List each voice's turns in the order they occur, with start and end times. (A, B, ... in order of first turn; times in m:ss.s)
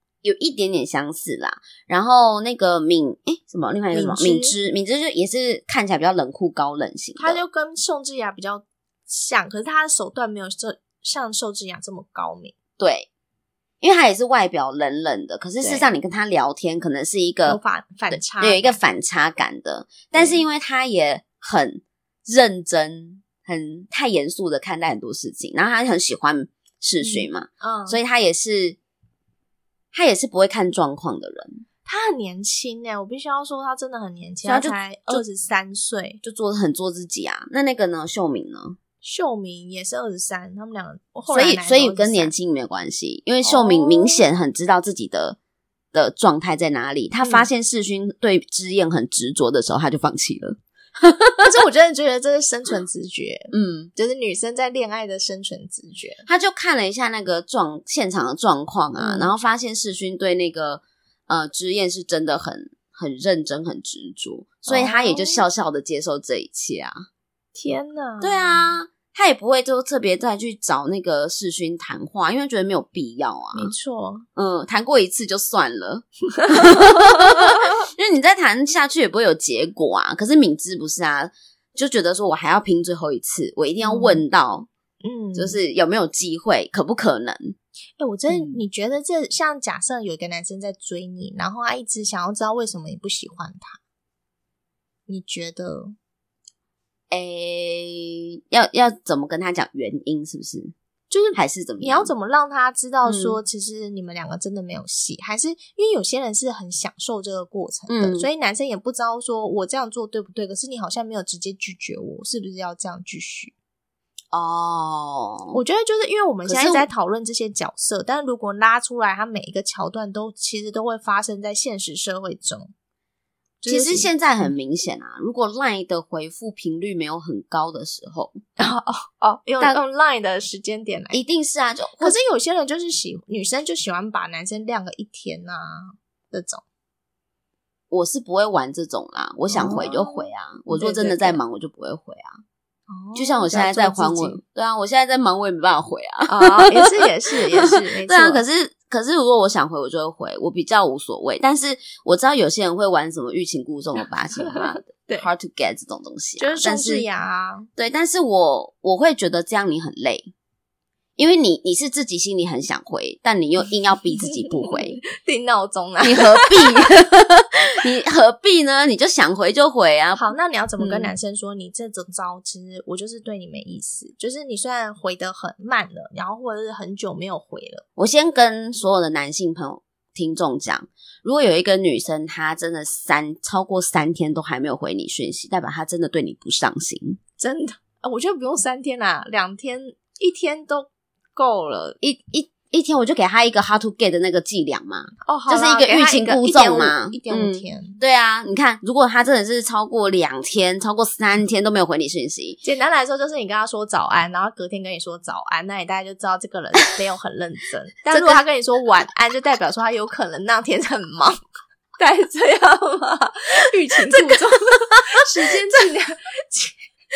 0:00.2-0:07.4 A
0:03.9-0:04.6 B
0:07.2-0:12.5 B
0:12.8-0:13.1 A
0:13.8-0:17.6 A
0:15.6-0:15.9 B
0:17.4-0:18.8 B
0:18.1-0:28.8 A
0:20.1-0:20.4 B
0:27.0-0:28.0 B
0:29.9-0:31.6 A
0:31.8-0:36.2 B
0:34.4-0:35.2 A
0:36.2-0:38.8 A
0:39.0-0:42.3 B
0:41.3-0:45.4 A
0:43.4-0:44.2 B
0:45.9-0:51.4 A
0:47.2-0:47.5 B
0:51.4-0:56.2 B
0:53.5-0:53.9 A
0:56.2-1:07.0 A
0:59.0-0:59.3 B
1:04.7-1:05.4 B
1:07.5-1:08.7 B
1:08.2-1:13.7 A
1:13.5-1:14.2 B
1:14.4-1:24.7 A
1:16.4-1:17.6 B
1:23.8-1:24.2 B
1:25.0-1:25.6 B
1:25.3-1:27.6 A
1:28.0-1:33.8 B
1:28.3-1:28.6 A
1:35.1-1:35.9 B
1:37.1-1:40.7 A
1:41.1-1:53.5 B
1:41.3-1:42.1 A
1:43.0-1:43.4 A
1:47.9-1:48.3 A
1:54.3-1:55.6 A
1:55.5-2:02.7 B
1:56.5-1:56.9 A
2:03.6-2:04.5 B
2:03.6-2:08.4 A
2:08.6-2:11.2 B
2:11.1-2:12.2 A
2:12.0-2:16.6 B
2:17.9-2:22.4 A
2:19.5-2:21.4 B
2:22.9-2:24.4 B
2:23.1-2:26.9 A
2:26.3-2:28.4 B
2:27.5-2:37.0 A
2:34.4-2:35.3 B
2:36.4-2:37.7 B
2:37.8-2:40.3 A
2:41.2-2:45.0 A
2:44.5-2:46.9 B
2:46.0-2:51.1 A
2:50.1-2:57.8 B
2:58.0-3:07.2 A
3:07.4-3:12.0 B
3:12.0-3:22.6 A
3:15.2-3:18.0 B
3:22.6-3:31.4 B
3:28.1-3:28.4 A
3:32.0-3:36.8 B